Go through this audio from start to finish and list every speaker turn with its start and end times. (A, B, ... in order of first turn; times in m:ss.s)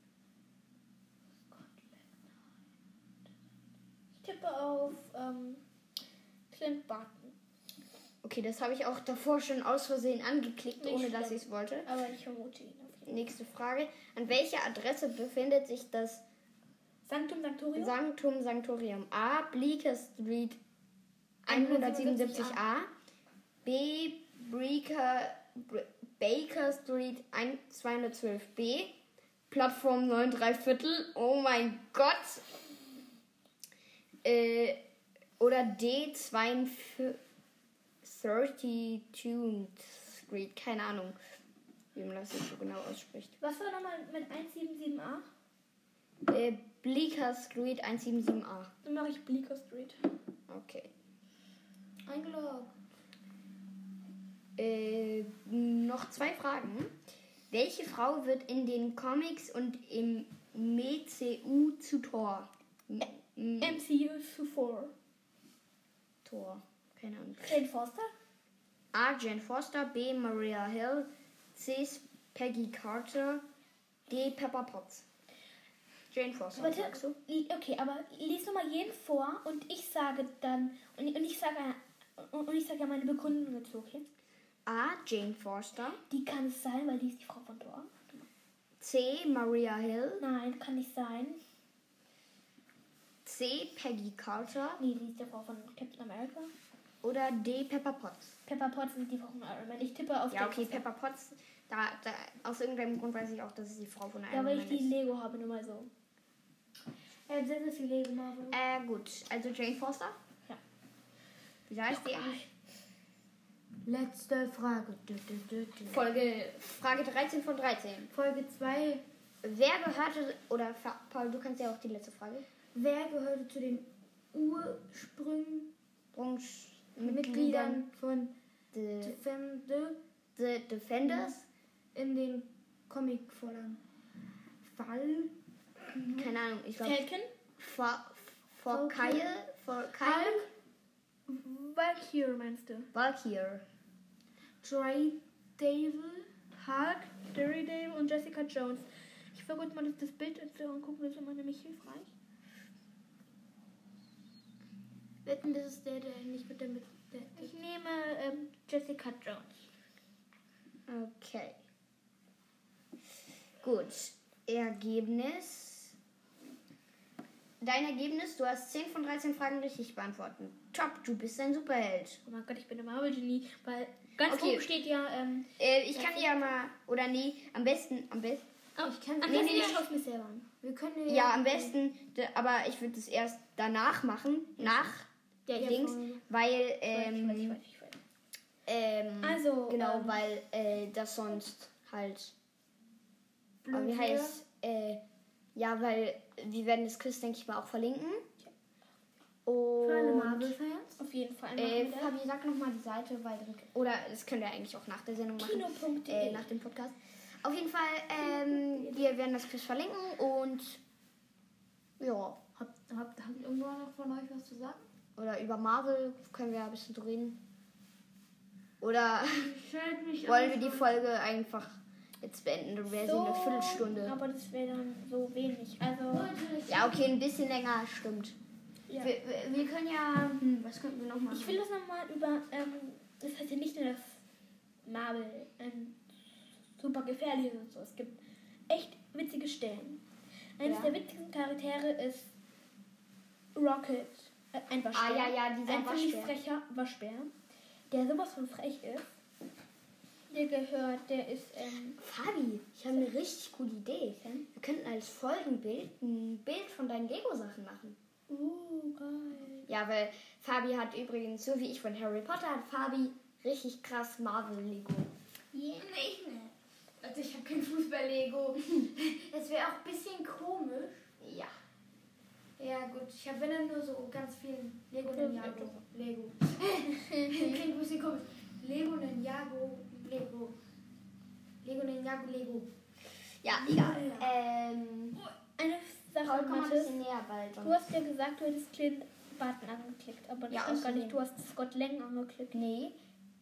0:01.5-0:02.0 A
0:04.2-0:05.6 A
0:06.5-0:07.3 A
0:08.2-0:11.9 B
0:10.8-0:13.2 A
0:13.1-0:16.2 B
0:17.0-0:17.9 A
0:17.8-0:20.6 B
0:21.4-0:22.9 B
0:21.5-0:22.6 C
0:23.6-0:29.0 B
0:29.5-0:32.4 B
0:34.2-0:34.8 B
0:35.4-0:37.2 B
0:38.0-0:41.2 B
0:41.9-0:43.3 B
0:43.4-0:45.2 A
0:46.3-0:48.7 B
0:48.8-0:50.0 A
0:50.5-0:50.9 B
0:52.0-0:52.7 C
0:54.6-0:56.9 B
0:57.5-1:03.8 B
1:03.6-1:04.9 A
1:06.2-1:07.6 B
1:07.4-1:08.1 A
1:08.9-1:13.4 B
1:14.1-1:15.0 B
1:16.1-1:17.2 B
1:16.6-1:24.0 A
1:24.6-1:26.0 B
1:26.1-1:28.2 A
1:28.8-1:30.2 B
1:30.2-1:31.4 A
1:33.2-1:34.8 B
1:34.8-1:36.5 A
1:37.0-1:38.3 B
1:38.4-1:40.8 A
1:40.3-1:44.9 B
1:44.3-1:45.9 A
1:47.3-1:48.6 C
1:48.5-1:50.2 B
1:51.7-1:52.4 B
1:51.9-1:52.5 A
1:53.8-1:56.0 C
1:55.9-1:58.1 B
1:58.1-1:59.0 C
1:59.4-2:02.4 B
2:02.7-2:05.7 C
2:06.1-2:07.8 B
2:07.0-2:08.3 C
2:08.7-2:09.2 B
2:09.0-2:10.0 C
2:10.4-2:11.4 B
2:11.9-2:13.8 C
2:14.6-2:15.3 C
2:15.9-2:16.3 C
2:16.1-2:17.0 B
2:16.8-2:17.3 A
2:17.6-2:20.5 B
2:18.7-2:19.2 C
2:20.0-2:20.5 A
2:21.3-2:22.9 A
2:22.9-2:23.6 B
2:24.6-2:26.3 C
2:26.6-2:32.1 A
2:35.2-2:37.5 C
2:37.4-2:39.6 A
2:40.9-2:41.6 B
2:43.6-2:45.9 B
2:47.6-2:52.2 B
2:52.2-2:55.5 A
2:54.2-2:54.6 B
2:55.6-2:58.4 B
2:58.8-3:00.4 A
2:58.8-2:59.8 C
2:59.2-2:59.8 B
3:00.6-3:01.7 C
3:01.1-3:07.6 B
3:05.5-3:05.8 A
3:05.5-3:06.2 C
3:06.9-3:08.0 A
3:08.7-3:12.3 B
3:09.2-3:10.2 A
3:13.6-3:14.4 C
3:13.7-3:15.0 B
3:15.5-3:18.2 B
3:19.4-3:20.6 B
3:19.8-3:21.0 C
3:21.0-3:22.1 A
3:21.6-3:30.8 B
3:25.4-3:26.5 A
3:28.2-3:29.1 C
3:32.0-3:32.4 B
3:32.6-3:34.8 C
3:35.2-3:37.4 B
3:38.8-3:39.5 B
3:39.3-3:41.0 C
3:40.2-3:44.2 B
3:43.0-3:46.3 A
3:46.1-3:47.1 C
3:46.7-3:48.4 B
3:49.0-3:51.6 B
3:51.3-3:54.2 A
3:54.8-3:56.0 A
3:56.8-4:00.0 A
4:00.6-4:02.3 A
4:00.6-4:00.9 B
4:03.5-4:07.3 A
4:04.9-4:06.3 B
4:07.9-4:09.1 A
4:10.3-4:12.0 A
4:12.0-4:18.0 B
4:18.3-4:19.7 A
4:19.7-4:25.1 B
4:25.6-4:31.0 C
4:31.2-4:31.5 B
4:32.6-4:40.5 C
4:35.1-4:35.7 A
4:36.9-4:37.6 A
4:41.6-4:42.7 C
4:43.4-4:45.2 B
4:43.6-4:44.3 C
4:45.6-4:46.9 A
4:46.2-4:47.8 B
4:47.6-4:52.6 A
4:50.5-4:51.2 B
4:52.5-4:53.0 B